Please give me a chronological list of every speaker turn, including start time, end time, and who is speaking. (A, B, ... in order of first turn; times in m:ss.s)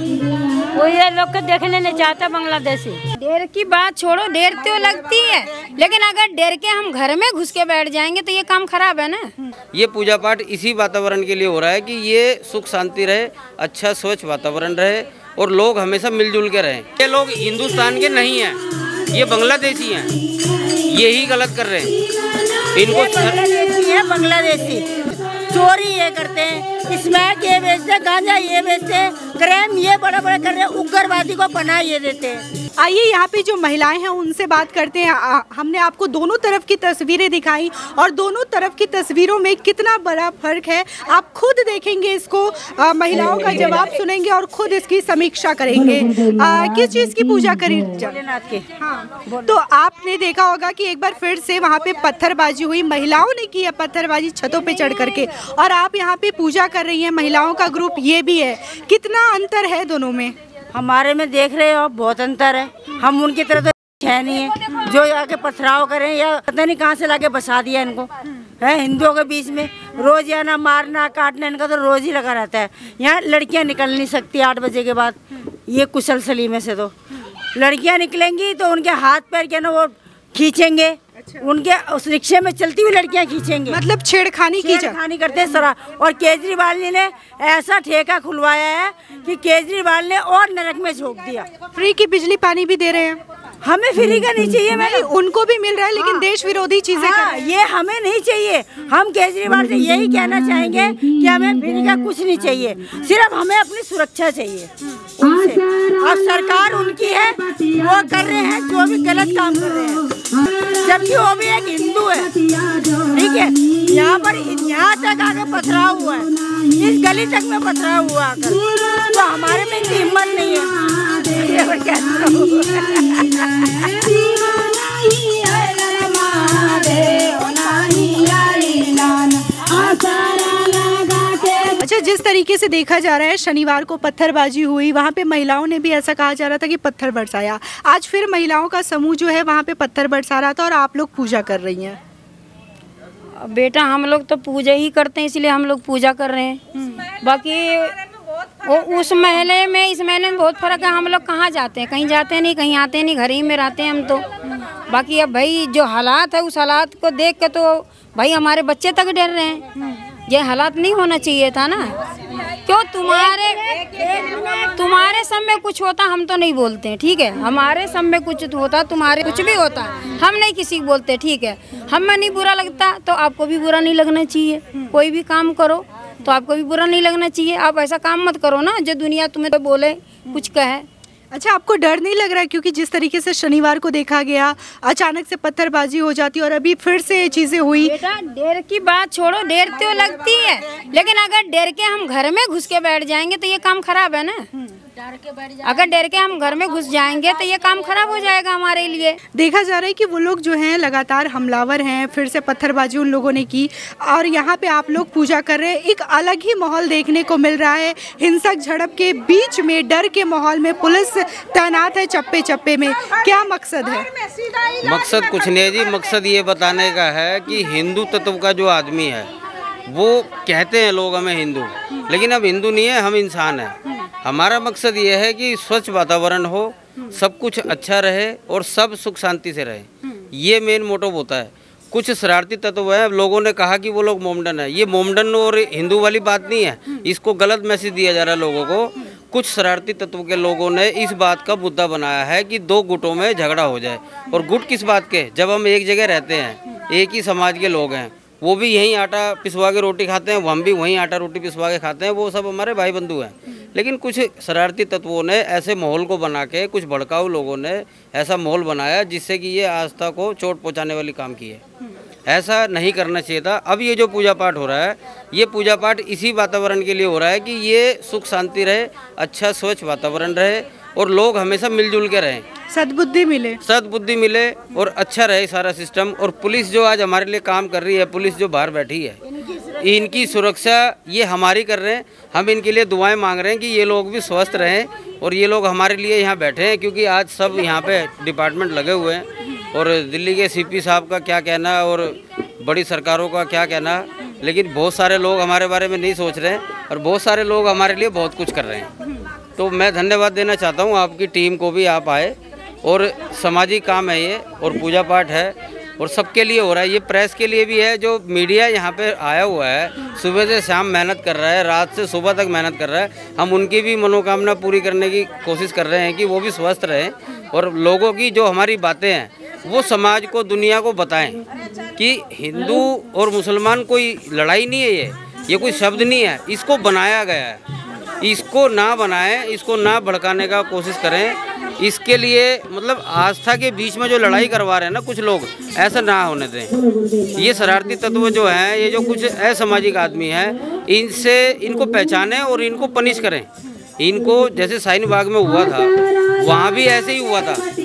0:00.7-0:03.0 A
0:03.2-0:09.3 B
0:09.7-0:20.1 C
0:20.9-0:22.0 C
0:22.7-0:23.4 C
0:22.9-0:24.9 D
0:25.5-0:32.4 D
0:32.8-0:48.1 E
0:47.9-0:48.6 D
0:48.8-1:00.4 E
1:00.7-1:16.9 D
1:17.5-1:23.8 D
1:23.7-1:25.0 E
1:24.6-1:31.5 D
1:31.8-1:33.2 E
1:33.6-1:35.1 D
1:34.8-1:37.3 E
1:36.9-2:04.1 D
2:06.5-2:07.2 D
2:11.6-2:22.0 E
2:23.4-2:28.0 B
2:28.6-2:34.2 B
2:34.9-2:39.6 B
2:40.3-2:41.9 B
2:42.4-2:43.8 B
2:43.7-2:44.7 D
2:44.6-3:00.9 B
3:01.3-3:08.0 E
3:07.8-3:14.5 B
3:15.6-3:19.2 B
3:19.3-3:34.1 E
3:34.7-3:39.3 C
3:39.9-4:21.6 C
4:22.3-4:32.4 C
4:32.7-4:33.6 E
4:33.6-4:39.2 C
4:39.4-4:40.4 D
4:39.8-4:58.9 C
4:59.6-5:21.4 C
5:22.0-5:27.6 C
5:28.2-5:36.7 C
5:37.3-5:47.6 C